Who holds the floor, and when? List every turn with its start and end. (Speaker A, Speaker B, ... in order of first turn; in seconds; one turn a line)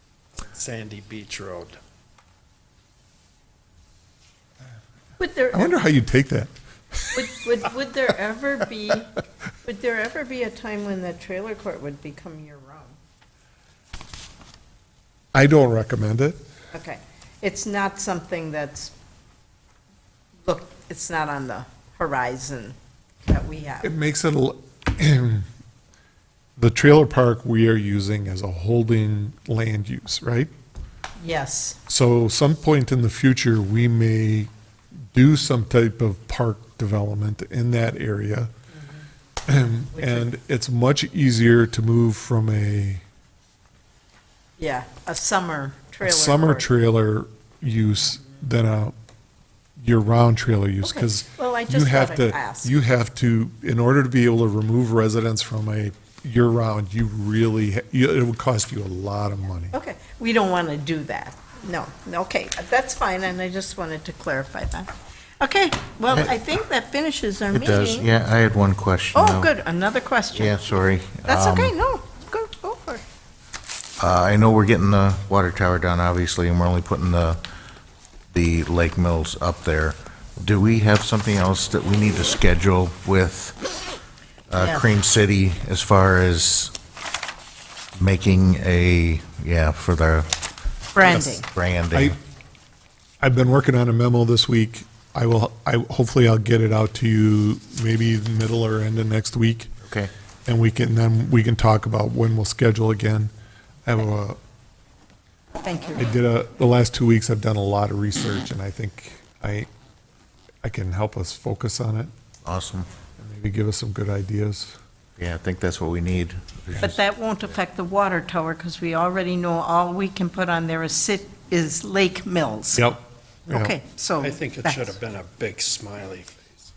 Speaker A: 0.4-1.8
Speaker B: 5.2-5.8
Speaker C: 5.5-7.2
Speaker B: 7.1-9.1
Speaker B: 9.6-12.9
Speaker C: 15.3-16.4
Speaker B: 16.7-18.9
Speaker B: 20.5-22.8
Speaker B: 23.3-23.9
Speaker C: 23.8-25.4
Speaker C: 26.6-30.5
Speaker B: 31.2-31.8
Speaker C: 31.9-34.5
Speaker C: 35.1-38.5
Speaker B: 38.7-39.0
Speaker C: 39.5-43.0
Speaker B: 40.0-40.3
Speaker B: 44.6-46.7
Speaker C: 46.0-48.9
Speaker C: 49.8-59.7
Speaker B: 50.8-52.7
Speaker B: 59.7-64.9
Speaker B: 65.4-68.1
Speaker D: 67.5-69.5
Speaker B: 69.1-73.0
Speaker D: 70.3-71.7
Speaker D: 74.0-77.4
Speaker D: 78.3-83.6
Speaker D: 84.5-86.7
Speaker B: 84.6-84.8
Speaker D: 87.9-90.3
Speaker B: 90.9-91.5
Speaker C: 91.1-91.3
Speaker D: 91.5-92.1
Speaker C: 93.2-99.7
Speaker D: 99.8-100.1
Speaker C: 100.5-103.3
Speaker C: 103.8-104.4
Speaker B: 105.6-106.1
Speaker C: 106.0-109.7
Speaker C: 110.6-112.1
Speaker D: 112.4-112.9
Speaker C: 113.2-114.8
Speaker D: 115.2-117.0
Speaker B: 116.8-122.9
Speaker C: 122.7-123.7
Speaker B: 123.5-124.9
Speaker A: 124.2-126.7